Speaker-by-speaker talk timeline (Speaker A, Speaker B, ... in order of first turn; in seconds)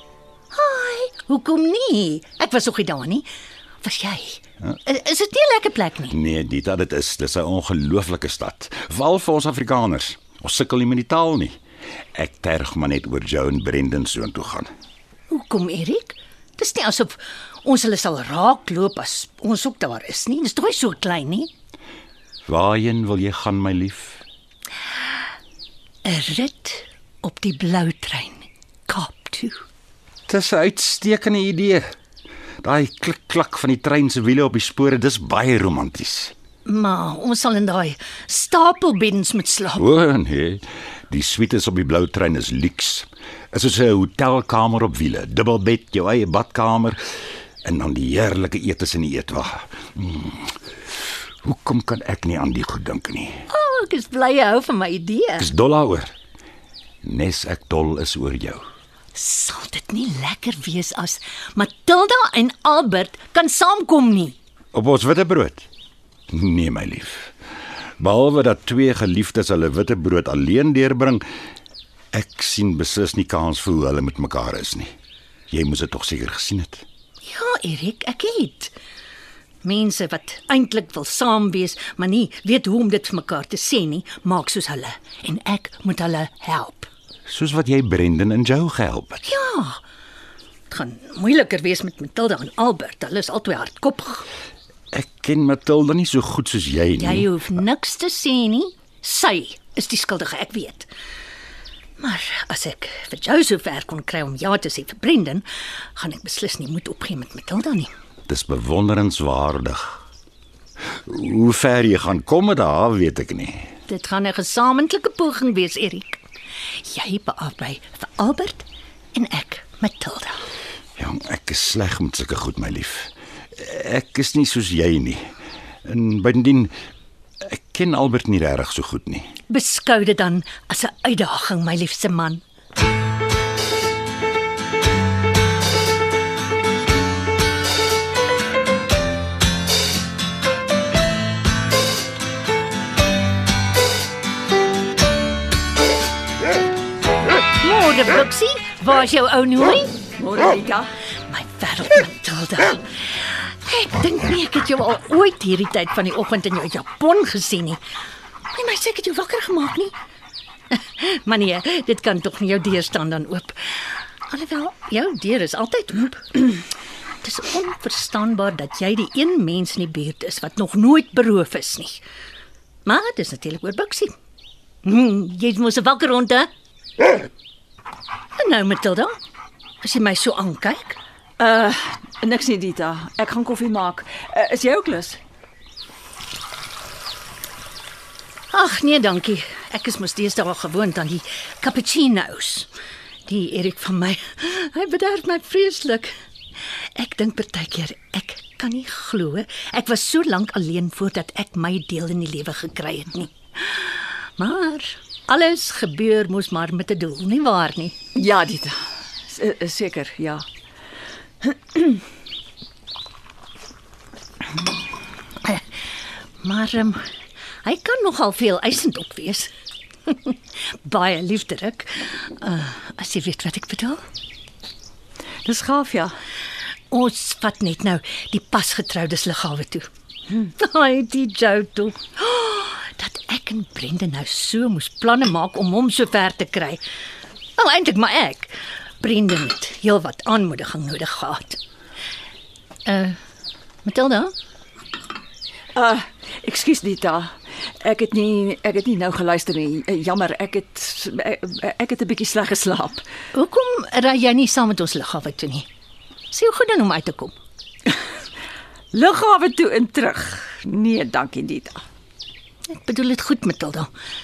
Speaker A: 0.5-3.3, 3.8-6.2, 15.3-21.5, 26.1-29.6, 36.6-39.9, 53.5-55.5, 59.1-64.4, 77.2-78.7, 79.6-86.9, 89.2-89.8, 90.7-94.3, 97.0-100.9, 102.0-107.9, 113.9-116.2, 116.8-120.4, 129.5-132.4, 147.6-150.0, 151.3-157.8, 158.5-159.9, 160.7-166.6, 167.2-172.0, 172.8-174.1, 174.8-176.5, 178.3-179.1, 179.8-181.0, 188.5-192.7, 193.3-196.1, 196.7-208.0, 216.4-217.0, 217.6-219.5, 220.1-224.0, 226.9-229.9, 230.6-236.8, 237.6-241.6, 242.9-243.2, 243.8-244.3, 253.3-255.7, 256.3-257.4, 262.7-263.9
Speaker B: 6.1-11.6, 12.2-14.7, 22.5-24.2, 30.3-31.9, 32.6-36.3, 39.8-47.0, 47.6-50.6, 51.4-53.4, 55.4-56.1, 57.0-58.6, 64.7-65.7, 66.3-67.3, 68.0-71.2, 72.1-74.9, 75.5-76.8, 87.3-89.2, 94.9-97.3, 108.3-110.0, 111.1-113.7, 121.0-125.2, 125.9-126.7, 127.4-129.3
Speaker C: 150.2-150.8, 181.4-181.7, 182.3-185.2, 208.2-208.7, 209.3-210.4, 225.5-226.1, 245.8-247.2, 247.9-253.0, 259.0-261.8